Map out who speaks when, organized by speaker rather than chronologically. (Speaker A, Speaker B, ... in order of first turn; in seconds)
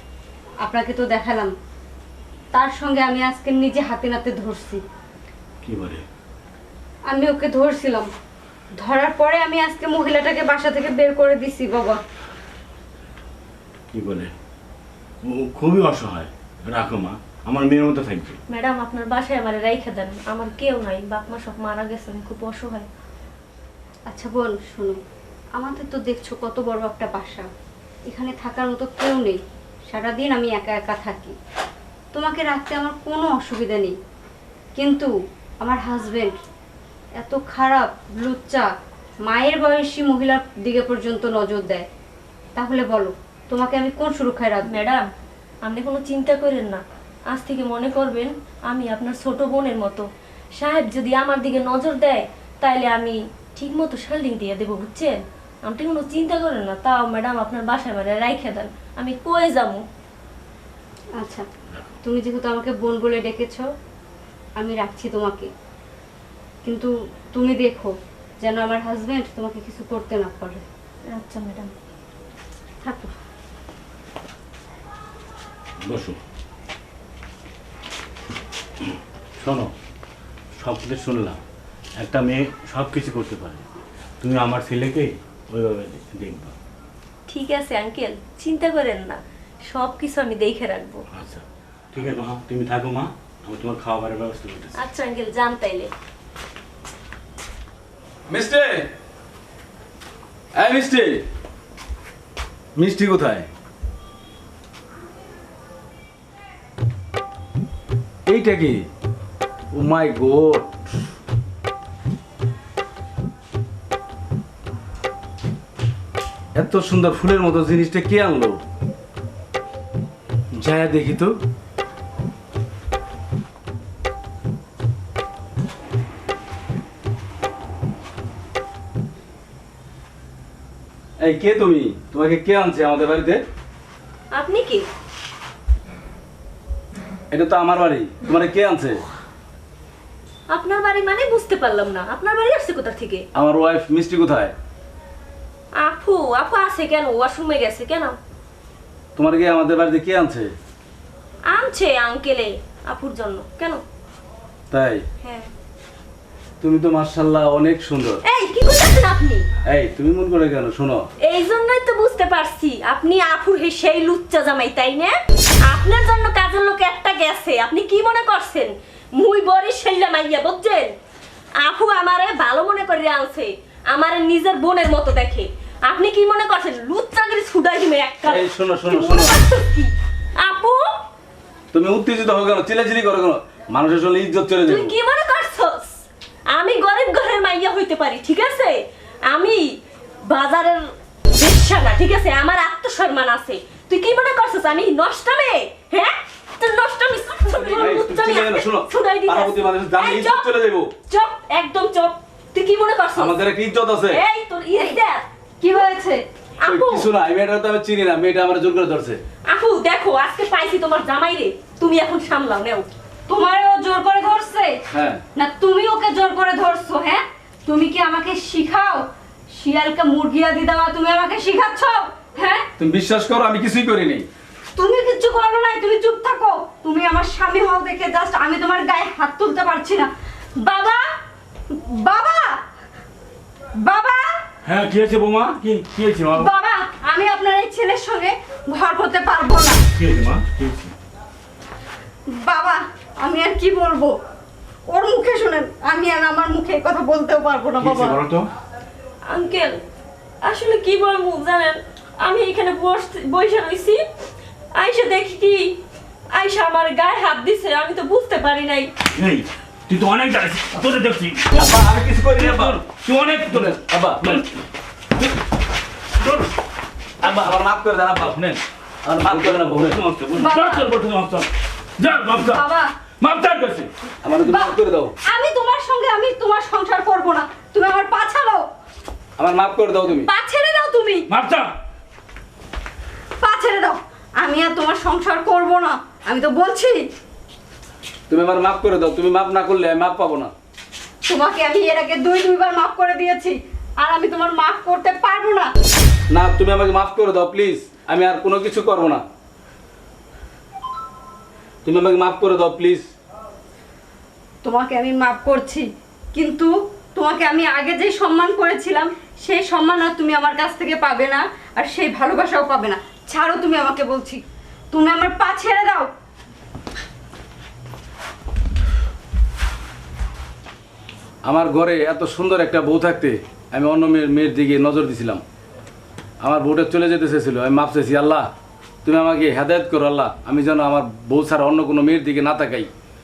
Speaker A: 0.6-1.5, 2.5-4.8, 7.1-8.1, 8.8-12.0, 24.1-25.0, 25.6-27.5, 28.1-31.4, 32.1-34.0, 34.8-36.4, 37.2-38.7, 39.3-41.9, 42.5-44.8, 61.2-61.5, 62.0-63.6, 64.6-65.5, 66.6-70.6, 72.8-73.1, 205.6-206.2, 213.3-214.8, 215.3-222.7, 224.7-231.1, 231.7-232.6, 233.8-234.3, 236.3-239.8, 242.3-244.2, 244.9-248.2, 270.3-270.9, 272.4-272.9, 274.3-278.6, 280.1-281.3, 283.4-287.1, 291.2-295.7, 304.6-316.1
Speaker B: 5.6-6.0, 13.9-14.3, 15.2-18.4, 75.8-76.2, 78.8-79.7, 80.6-81.4, 82.0-83.7, 84.2-86.5, 91.1-94.8, 234.6-236.5, 239.9-240.9, 247.8-248.5, 259.1-261.8, 262.4-264.5, 269.2-271.5
Speaker C: 18.5-22.9, 44.7-45.1, 45.6-59.8, 71.1-71.7, 87.3-91.0, 94.8-95.9, 134.3-134.9, 140.5-143.2, 145.8-148.2, 151.5-153.8, 155.2-155.5, 158.2-159.5, 161.2-165.1, 165.7-170.9, 171.6-181.0, 184.7-200.6, 201.1-203.4, 204.1-205.2, 206.6-207.1, 209.5-212.9, 249.3-249.8, 250.4-254.0, 254.7-255.8, 256.3-258.9
Speaker D: 98.3-98.9, 100.5-101.2, 102.8-103.5, 108.2-108.9, 109.7-110.9, 116.5-118.6, 120.5-121.4, 131.2-133.4, 137.3-139.0, 143.3-144.5, 149.2-150.5, 154.7-155.0, 156.6-158.2, 159.7-161.1, 178.2-179.4, 181.7-184.9, 197.5-200.9, 203.2-204.2, 206.7-209.2, 214.9-215.2, 222.8-224.3, 261.5-264.4, 267.2-270.0, 272.0-272.6, 273.2-275.1, 279.4-280.3, 281.3-281.7, 288.3-290.5, 296.3-299.2, 301.8-303.1, 321.4-325.4, 326.4-328.5, 329.0-332.9